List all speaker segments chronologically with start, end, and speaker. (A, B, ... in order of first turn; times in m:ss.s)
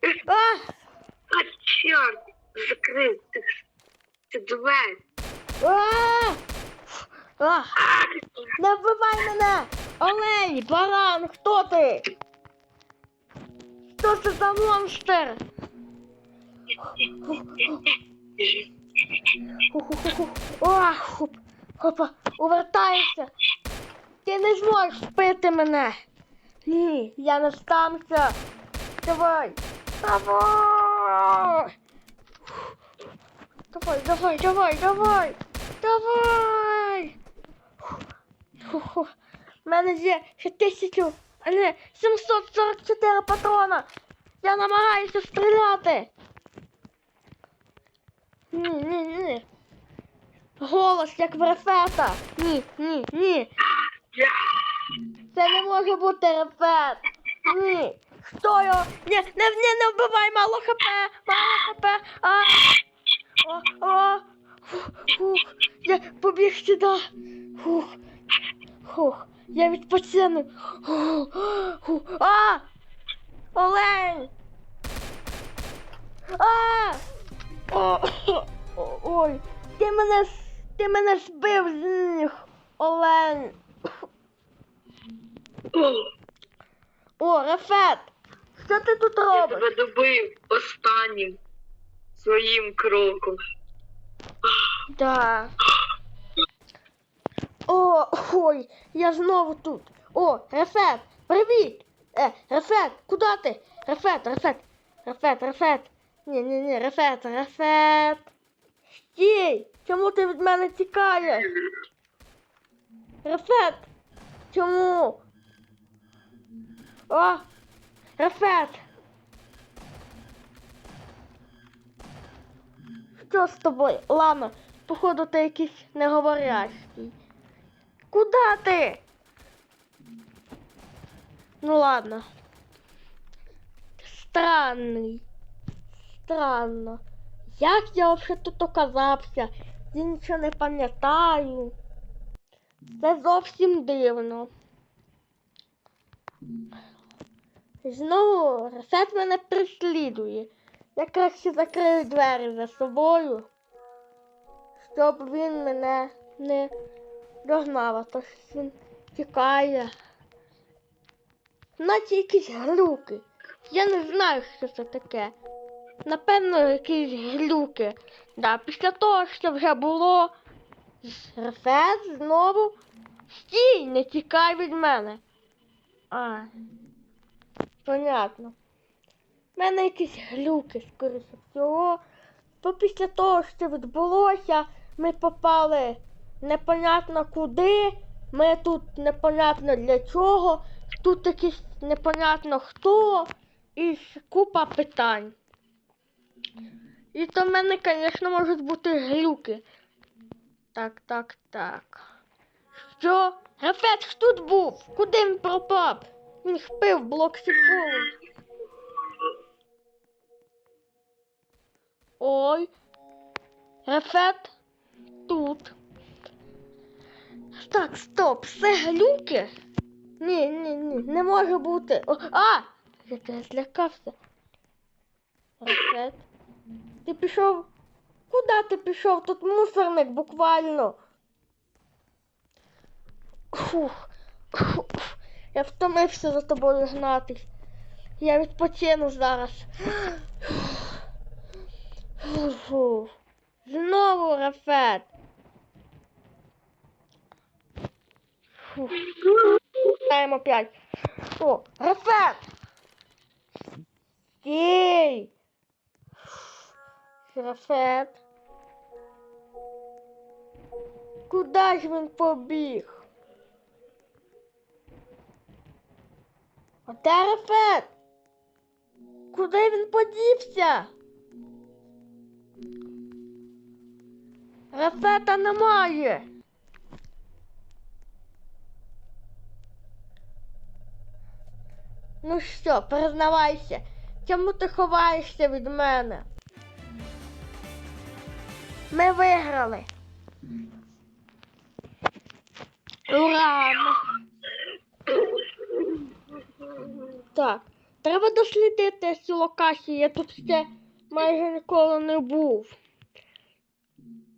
0:00.2-0:00.6 A
0:01.3-0:03.4 B
0:04.3-0:05.0 B
0:05.6-0:07.7 A
0:07.8-0:08.2 B
0:08.6-0:12.1 A
0:13.9-0:15.4 A
0:16.9-0:17.8 A
0:19.6-0:23.3 A
0:24.2-0:25.9 A
0:26.6-0:28.4 A
0:29.0-0:31.7 A
0:33.7-0:37.2 A
0:38.6-0:39.1 A
0:39.6-0:43.9 A
0:44.4-0:46.1 A
0:48.5-0:49.4 A
0:50.6-0:53.5 A
0:54.2-0:55.0 B
0:55.3-1:02.8 A
1:03.4-1:07.0 A
1:07.6-1:08.0 A
1:08.8-1:12.6 A
1:13.5-1:14.3 A
1:16.3-1:17.0 A
1:17.7-1:23.6 A
1:25.7-1:26.1 B
1:27.2-1:29.7 A
1:29.3-1:31.4 B
1:32.2-1:33.4 B
1:34.9-1:35.5 A
1:37.7-1:48.3 A
1:48.9-1:51.6 A
1:53.2-1:53.9 A
1:54.5-1:55.2 A
1:57.1-1:57.4 A
1:58.2-1:58.8 A
2:03.2-2:07.2 A
2:08.1-2:09.0 A
2:11.6-2:12.3 A
2:14.0-2:15.2 A
2:16.1-2:17.0 A
2:17.5-2:21.7 A
2:22.9-2:24.5 A
2:27.8-2:33.5 A
2:34.8-2:36.7 A
2:37.4-2:39.9 A
2:41.8-2:45.4 A
2:46.0-2:50.3 A
2:51.0-2:52.8 A
2:53.3-2:55.2 A
2:56.1-2:56.5 A
2:57.8-2:58.6 A
2:59.6-3:02.0 A
3:02.6-3:15.3 A
3:17.1-3:19.6 A
3:20.7-3:22.0 A
3:22.9-3:28.1 A
3:32.2-3:32.7 A
3:33.8-3:34.6 A
3:35.3-3:35.7 A
3:37.6-3:39.5 A
3:40.2-3:44.2 A
3:45.6-3:46.3 A
3:47.0-3:47.7 A
3:48.3-3:51.0 A
3:53.5-3:57.5 A
3:58.2-4:01.0 A
4:02.2-4:03.1 A
4:03.6-4:05.1 A
4:08.7-4:09.1 A
4:09.9-4:10.7 A
4:11.4-4:12.5 A
4:14.4-4:15.3 A
4:17.3-4:18.2 A
4:21.3-4:23.0 A
4:26.9-4:27.9 A
4:29.3-4:30.9 A
4:34.7-4:36.3 A
4:42.2-4:46.3 A
4:48.9-4:49.9 A
4:53.1-4:54.1 A
4:55.1-4:56.0 B
4:57.3-5:02.8 A